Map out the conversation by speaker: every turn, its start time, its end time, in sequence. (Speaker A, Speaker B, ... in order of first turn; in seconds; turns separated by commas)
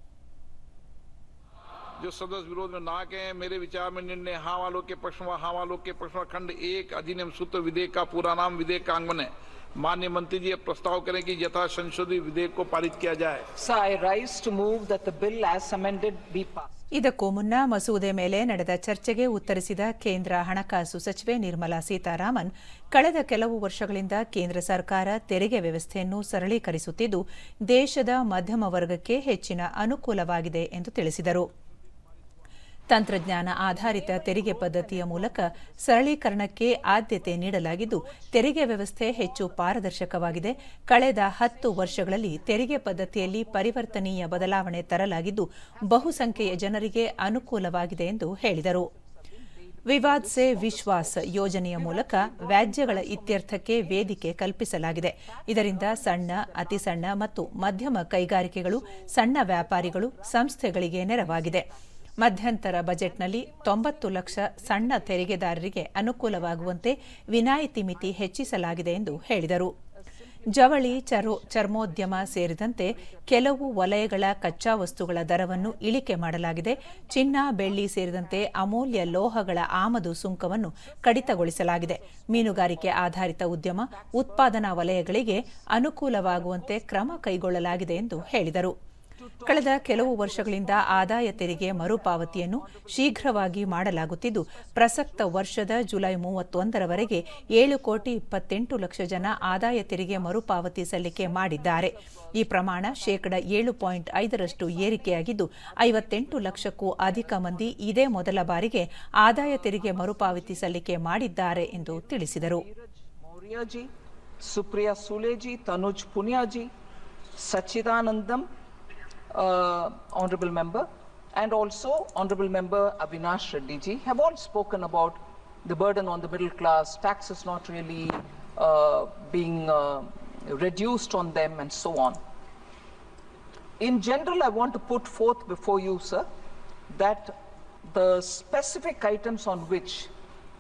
Speaker A: 2.0-13.5, Speaker B: 13.6-16.7, Speaker C: 16.9-31.5, Speaker C: 32.9-48.9, Speaker B: 33.7-35.8, Speaker B: 36.8-38.4, Speaker B: 39.1-40.8, Speaker B: 41.4-45.1, Speaker B: 45.7-47.8, Speaker B: 48.7-57.6, Speaker C: 49.9-61.7, Speaker B: 58.6-61.9, Speaker C: 62.2-69.7, Speaker B: 63.0-65.6, Speaker B: 66.2-79.5, Speaker C: 70.6-88.7, Speaker B: 80.8-83.3, Speaker B: 83.9-88.5, Speaker B: 89.2-96.0, Speaker C: 89.5-112.6, Speaker B: 96.5-98.2, Speaker B: 99.0-108.4, Speaker B: 109.3-110.9, Speaker B: 111.5-113.9, Speaker B: 114.4-116.7, Speaker B: 117.3-118.5, Speaker B: 119.3-132.2, Speaker B: 133.8-136.3, Speaker B: 136.9-140.1